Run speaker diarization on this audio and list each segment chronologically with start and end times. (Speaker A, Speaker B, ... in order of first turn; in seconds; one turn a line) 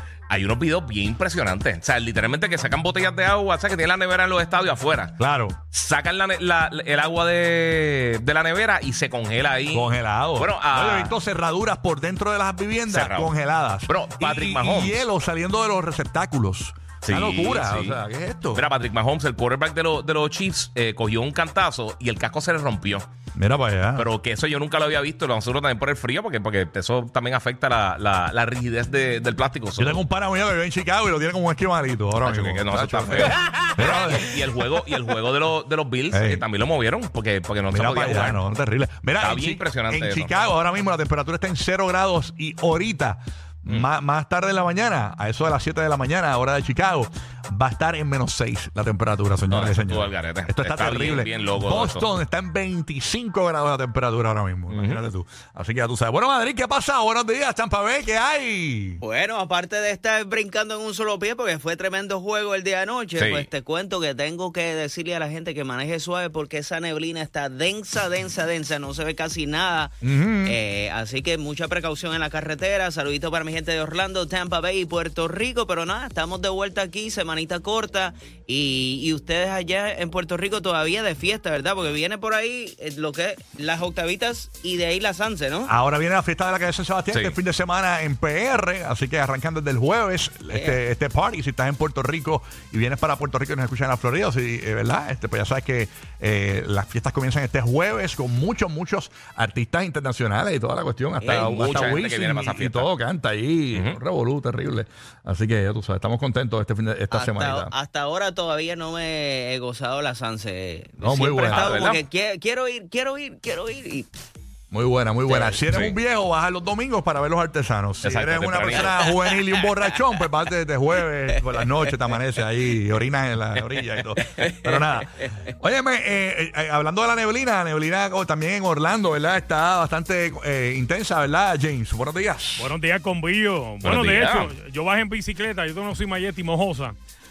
Speaker A: 0.3-5.1
Speaker B: 5.2-5.6
Speaker A: 5.7-11.2
Speaker B: 9.7-18.6
Speaker A: 12.9-13.3
Speaker A: 13.9-15.1
Speaker A: 17.0-18.0
Speaker A: 18.5-23.1
Speaker B: 23.4-24.1
Speaker A: 23.9-30.0
Speaker B: 29.8-34.3
Speaker A: 32.2-38.4
Speaker B: 36.1-36.4
Speaker B: 37.7-59.0
Speaker A: 39.2-40.4
Speaker A: 49.5-52.1
Speaker A: 54.7-55.0
Speaker C: 59.0-69.9
Speaker A: 63.1-63.5
Speaker B: 70.0-70.6
Speaker C: 70.4-85.7
Speaker B: 85.7-107.7
Speaker A: 87.1-87.4
Speaker C: 90.5-90.8
Speaker C: 101.2-101.6
Speaker A: 101.2-102.9
Speaker A: 103.7-104.0
Speaker C: 107.1-114.1
Speaker B: 111.0-111.7
Speaker A: 111.1-112.0
Speaker B: 114.7-132.7
Speaker C: 115.3-115.6
Speaker A: 115.7-116.0
Speaker A: 118.0-119.4
Speaker A: 124.0-124.7
Speaker D: 132.6-136.9
Speaker A: 133.8-134.5